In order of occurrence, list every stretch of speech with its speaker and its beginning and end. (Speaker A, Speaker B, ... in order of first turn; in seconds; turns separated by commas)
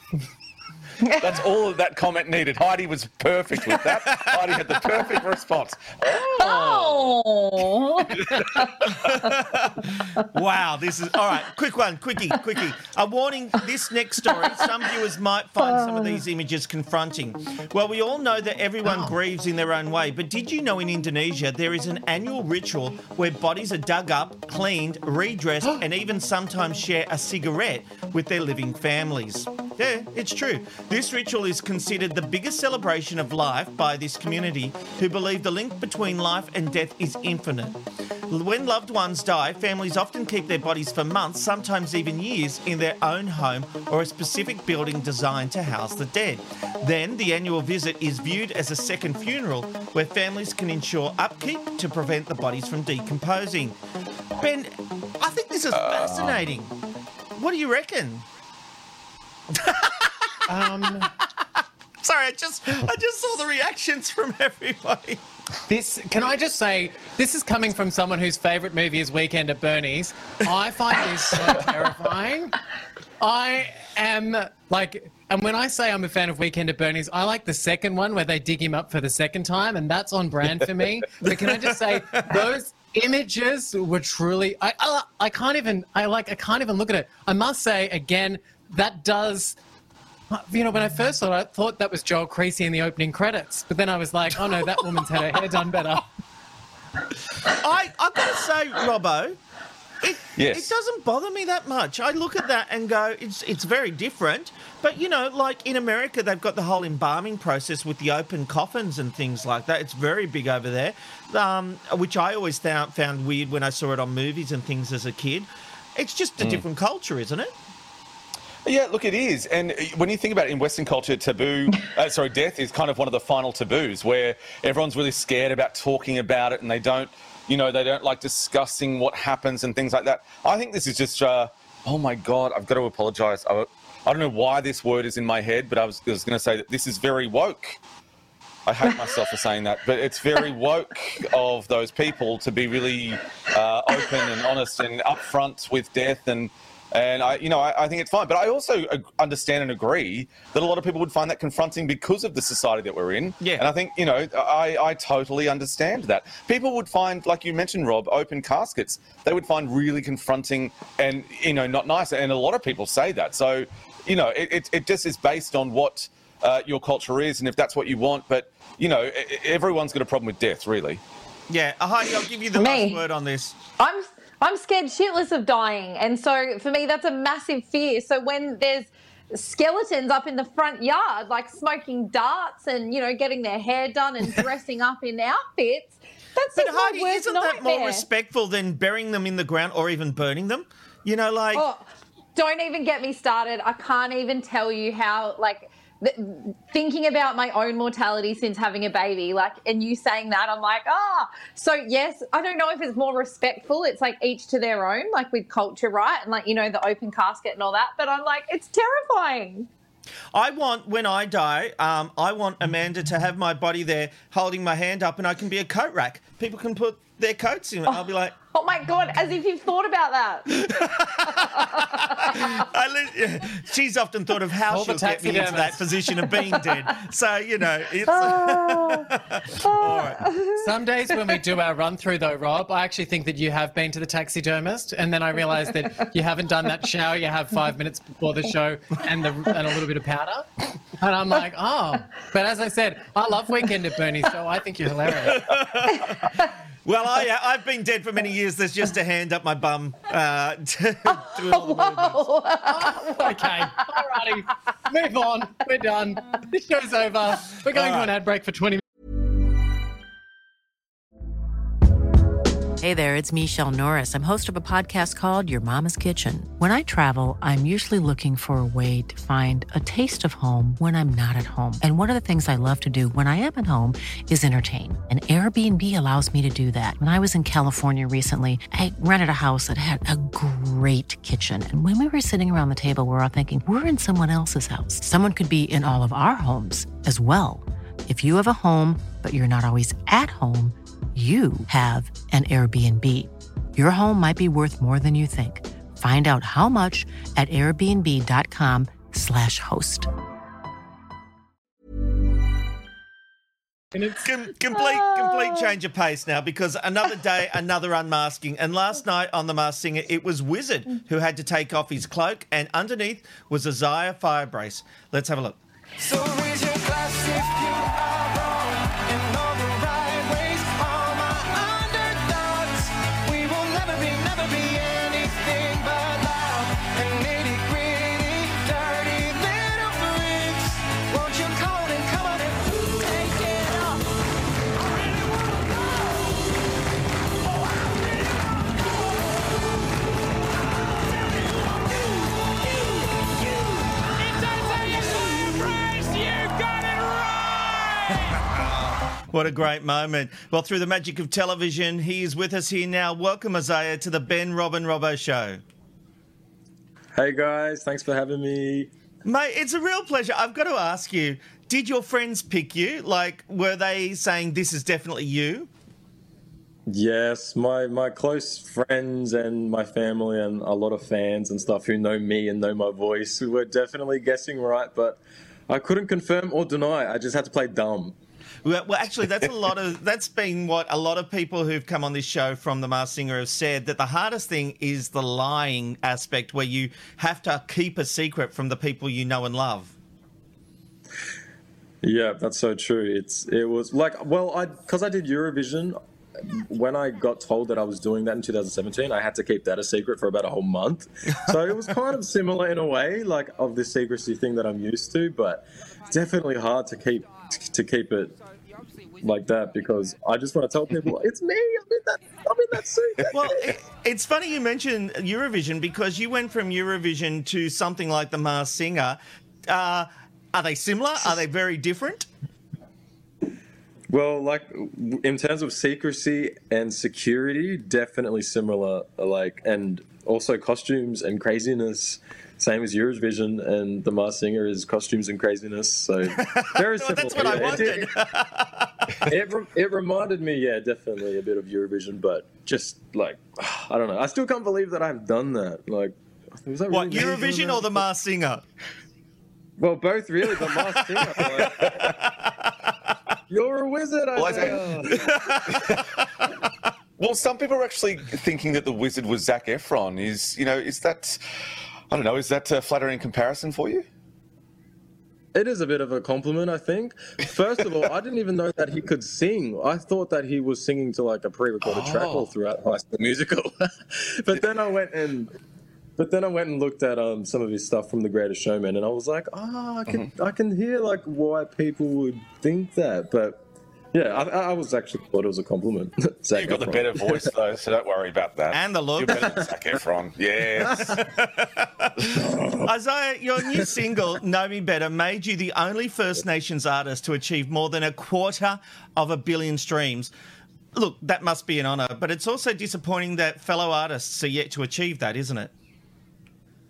Speaker A: 1.0-1.3, Speaker B: 1.1-7.2, Speaker C: 4.1-4.5, Speaker A: 6.1-9.3, Speaker C: 9.1-53.8, Speaker A: 14.3-14.6, Speaker A: 15.6-16.2, Speaker D: 18.8-19.1, Speaker C: 54.4-56.8, Speaker B: 55.7-56.4, Speaker C: 57.4-58.2, Speaker C: 59.5-60.4, Speaker D: 60.5-61.1, Speaker C: 62.0-65.2, Speaker D: 65.7-72.6, Speaker D: 73.2-89.5, Speaker C: 81.2-82.3, Speaker D: 90.3-96.0, Speaker C: 97.5-99.4, Speaker C: 100.0-117.5, Speaker B: 100.3-100.7, Speaker B: 118.6-137.8, Speaker B: 138.7-171.0, Speaker C: 153.4-153.7, Speaker C: 171.5-173.6, Speaker A: 172.6-173.0, Speaker A: 173.8-188.1, Speaker C: 186.5-191.7, Speaker A: 191.5-191.8, Speaker A: 192.3-209.7, Speaker C: 210.3-218.3, Speaker A: 218.5-222.6, Speaker C: 220.6-230.3, Speaker D: 224.7-225.8, Speaker A: 228.1-229.1, Speaker A: 229.6-230.6, Speaker D: 230.6-245.5, Speaker C: 245.2-246.3, Speaker A: 245.9-246.3, Speaker C: 246.8-252.3, Speaker A: 251.2-253.4, Speaker D: 252.7-258.8, Speaker C: 257.7-258.1, Speaker E: 262.8-300.1, Speaker D: 303.9-304.2, Speaker C: 304.2-315.6, Speaker A: 305.1-305.4, Speaker F: 316.0-333.8, Speaker C: 349.3-355.6, Speaker G: 357.1-358.9, Speaker C: 359.2-365.7, Speaker G: 366.9-378.1, Speaker C: 378.6-389.9, Speaker G: 392.0-408.3, Speaker G: 409.2-413.6, Speaker C: 413.3-422.3, Speaker G: 424.1-438.1, Speaker C: 436.3-438.9, Speaker G: 439.3-448.0, Speaker C: 446.9-448.6, Speaker G: 449.8-451.9, Speaker C: 451.2-452.7, Speaker B: 451.6-452.1, Speaker G: 453.5-455.2, Speaker B: 454.3-456.1, Speaker C: 455.1-456.0, Speaker B: 457.2-461.4, Speaker B: 462.1-464.0, Speaker G: 465.5-475.5, Speaker B: 471.8-472.5, Speaker G: 476.2-487.5, Speaker B: 486.5-491.2, Speaker C: 488.7-489.5, Speaker C: 491.1-500.3, Speaker C: 500.9-505.7